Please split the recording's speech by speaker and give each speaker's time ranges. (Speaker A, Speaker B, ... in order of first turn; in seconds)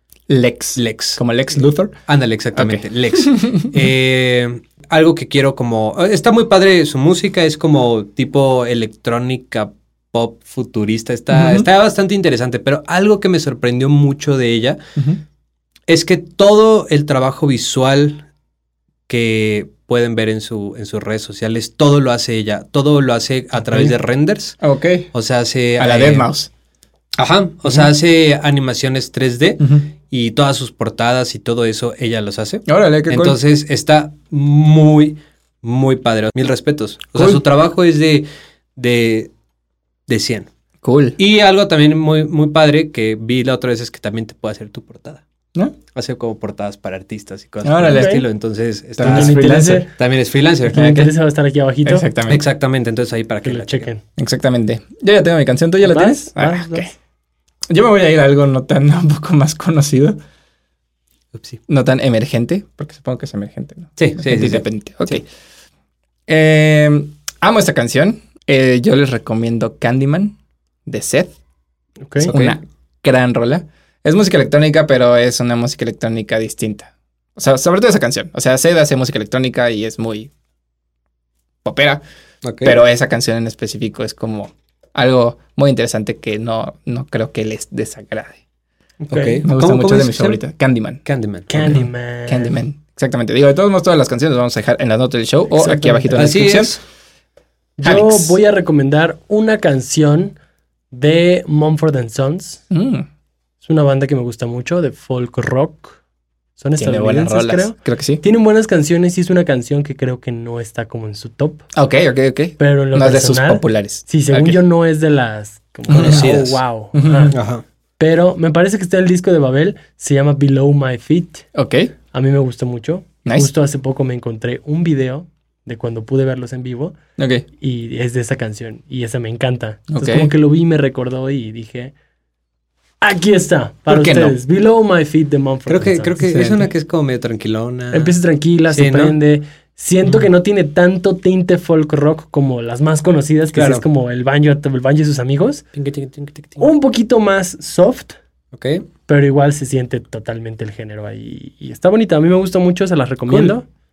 Speaker A: 0.3-1.9, 2.5-3.9, 11.3-11.7, 24.6-25.1, 25.8-26.5, 29.6-29.9, 32.7-33.4, 37.1-37.4, 40.8-41.2, 47.6-48.2, 49.0-49.9, 50.7-51.1, 51.9-52.4, 54.2-56.9, 57.7-60.2, 61.7-65.2, 66.3-71.3, 72.3-80.3, 81.6-82.0, 82.6-88.4, 89.4-91.0, 91.7-96.8, 97.8-98.4, 102.7-103.1, 106.8-108.2, 111.7-114.6, 115.9-116.4, 116.9-117.4, 121.5-121.9, 127.2-127.5, 129.9-130.3, 133.9-134.4, 136.2-136.7
Speaker B: 0.8-1.2, 2.1-14.8, 15.9-18.2, 19.1-24.6, 25.1-26.3, 27.2-39.3, 40.1-40.5, 41.2-45.2, 45.9-50.8, 52.3-53.9, 61.3-61.6, 64.0-64.7, 72.2-72.6, 82.4-82.8, 89.0-90.4, 91.0-91.8, 96.1-96.8, 115.9-116.6, 117.3-117.6, 135.7-138.1, 138.7-139.2, 143.5-143.8, 145.8-146.7, 148.5-148.8
Speaker C: 47.9-48.2, 49.0-49.9, 50.7-52.1, 53.5-54.0, 55.9-56.9, 72.1-72.3, 89.1-89.4, 91.5-92.5, 95.5-96.3, 97.8-100.4, 100.9-102.6, 103.6-106.0, 106.6-111.7, 112.6-117.4, 118.0-121.5, 122.1-127.0, 127.6-131.9, 133.0-136.3, 137.9-145.7, 146.6-148.2, 149.1-153.7